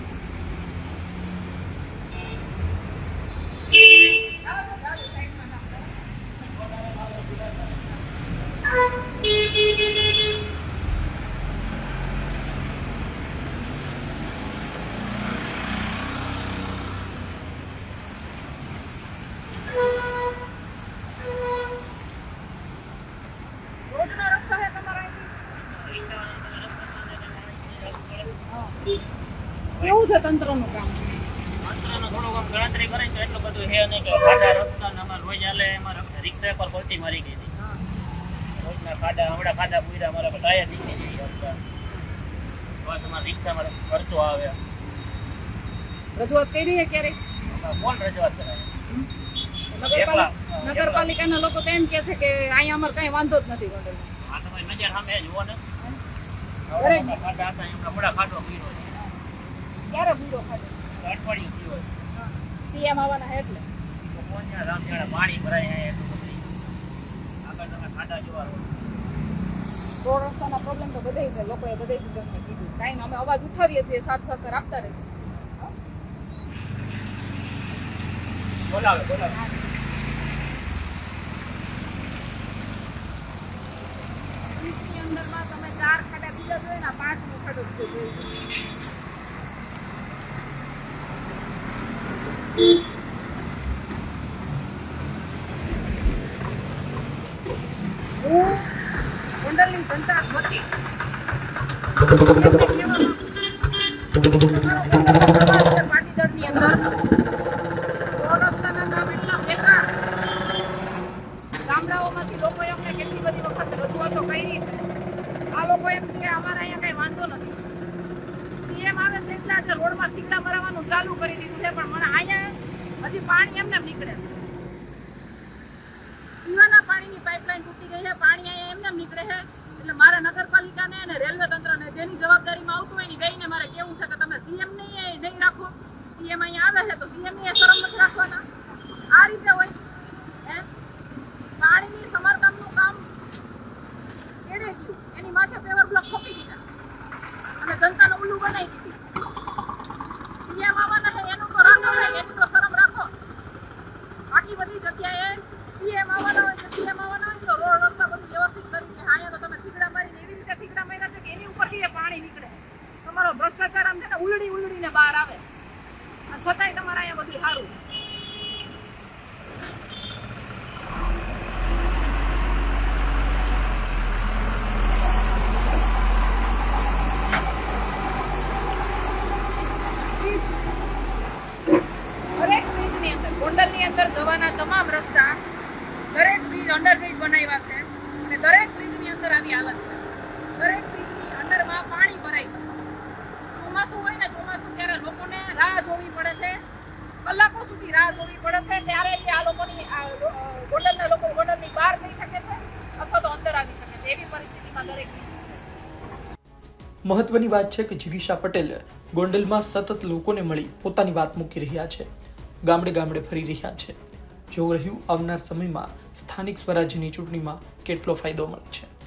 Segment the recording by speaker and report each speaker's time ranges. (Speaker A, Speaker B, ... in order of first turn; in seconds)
Speaker A: 4.2-5.9, 23.9-25.3, 28.5-28.8, 29.8-31.0, 46.1-47.2, 49.7-54.1, 56.8-57.1, 59.9-60.9, 62.1-63.6, 70.0-75.7, 84.5-88.4, 98.2-98.8, 99.4-100.7, 102.2-103.6, 104.4-107.0, 108.2-109.9, 111.7-114.8, 115.5-117.6, 118.6-124.3, 126.4-138.4, 139.1-140.7, 141.6-143.1, 144.4-146.6, 147.6-149.0, 150.4-153.1, 154.3-165.4, 166.3-167.7, 180.2-180.5, 182.3-185.4, 186.1-190.0, 190.6-192.8, 193.5-196.6, 197.2-205.6
Speaker B: 6.6-7.7, 25.7-28.4, 31.6-37.5, 38.6-41.6, 42.8-44.6, 47.5-48.7, 49.8-51.1, 54.2-55.6, 56.7-59.0, 61.0-61.9, 64.0-66.5, 67.4-68.7, 78.7-79.4
Speaker C: 207.1-212.1, 212.7-214.0, 214.5-218.9